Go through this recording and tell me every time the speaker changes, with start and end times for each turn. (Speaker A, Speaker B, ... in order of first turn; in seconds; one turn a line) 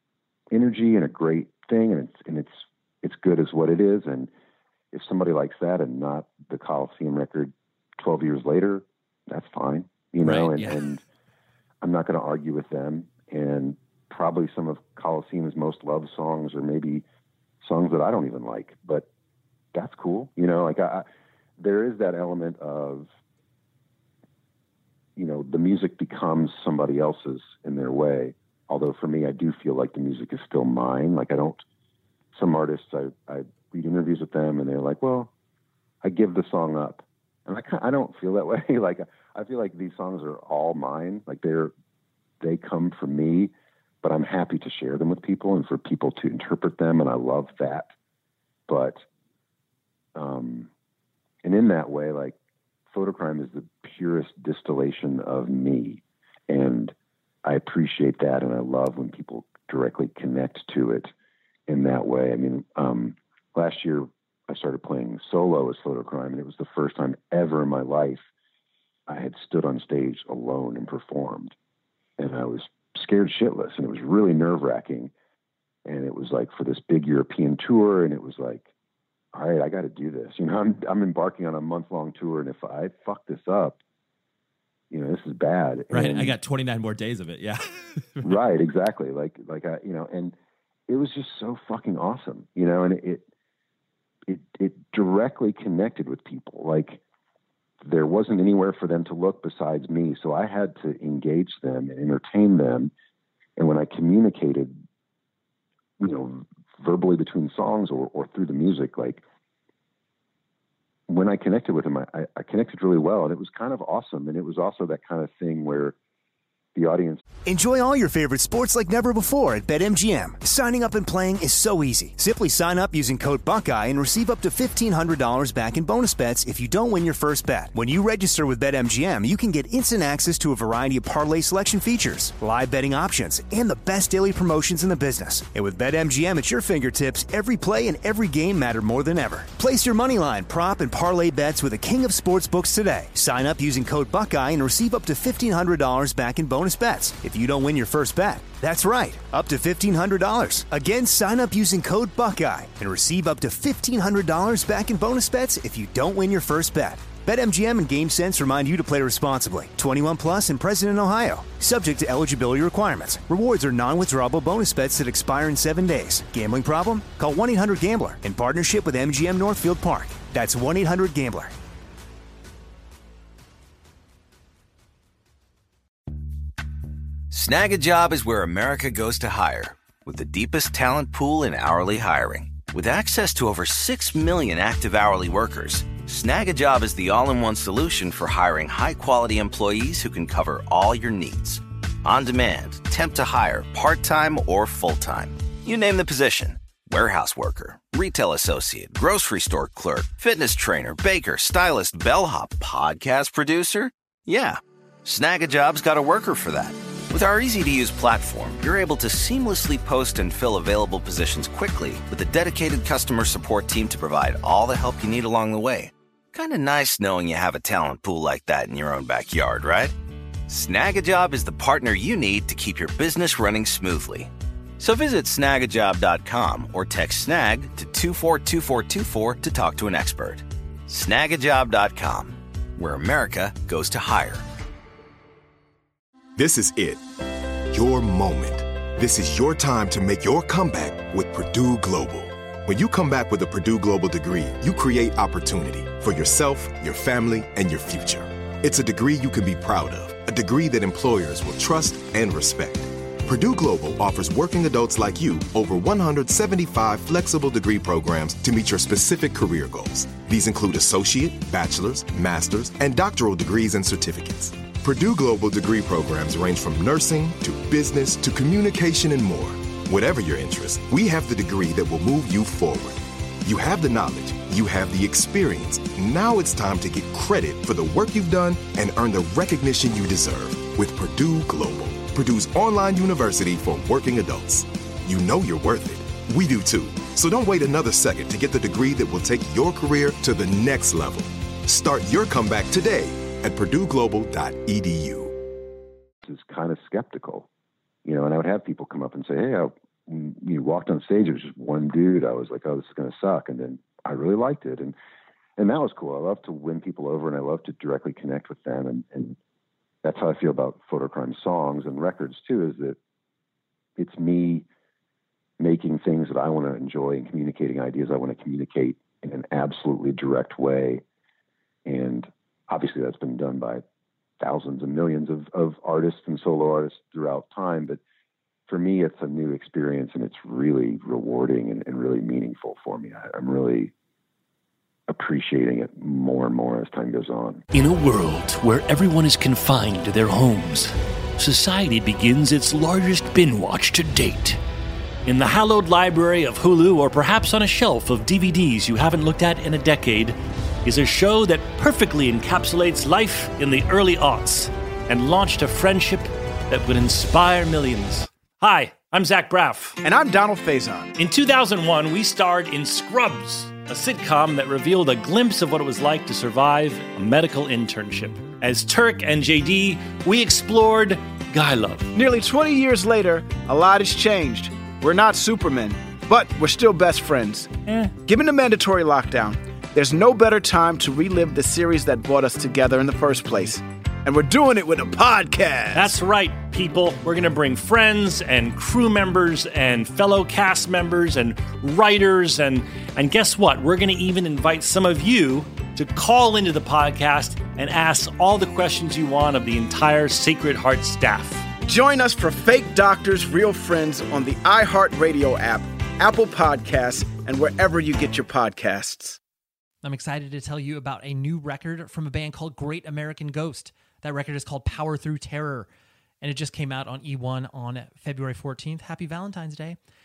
Speaker A: 0.5-4.3
Speaker A: 4.9-11.0
Speaker B: 10.2-10.8
Speaker A: 11.8-17.1
Speaker A: 17.6-19.1
Speaker A: 19.7-21.1
Speaker A: 21.6-23.1
Speaker A: 25.2-31.6
Speaker A: 32.3-35.3
Speaker A: 36.0-41.7
Speaker A: 42.4-43.5
Speaker A: 44.0-47.9
Speaker A: 48.7-49.0
Speaker A: 50.1-50.7
Speaker A: 51.4-52.4
Speaker A: 52.9-61.1
Speaker A: 61.7-68.2
Speaker A: 69.1-71.5
Speaker A: 72.2-75.1
Speaker A: 75.8-78.7
Speaker A: 79.3-83.8
Speaker A: 84.9-86.3
Speaker B: 85.9-88.4
Speaker A: 88.2-90.3
Speaker A: 90.9-93.2
Speaker A: 94.3-97.0
Speaker A: 97.8-102.9
Speaker A: 103.6-104.8
Speaker A: 106.0-109.2
Speaker A: 111.1-116.0
Speaker A: 116.8-117.2
Speaker C: 117.5-171.5
Speaker D: 177.3-219.9
Speaker D: 220.5-234.4
Speaker E: 236.4-237.0
Speaker E: 237.7-295.3
Speaker A: 296.2-297.5
Speaker A: 298.1-304.9
Speaker A: 305.6-309.4
Speaker A: 310.0-313.0
Speaker A: 314.0-314.7
Speaker A: 315.6-321.0
Speaker A: 321.9-323.8
Speaker A: 324.4-328.0
Speaker A: 328.7-333.9
Speaker A: 335.1-337.6
Speaker F: 337.7-344.6
Speaker F: 345.2-360.0
Speaker G: 360.0-361.1
Speaker F: 361.2-372.1
Speaker G: 372.1-386.2
Speaker F: 377.9-378.1
Speaker F: 385.9-401.7
Speaker G: 401.9-409.4
Speaker H: 410.0-415.9
Speaker H: 416.4-420.0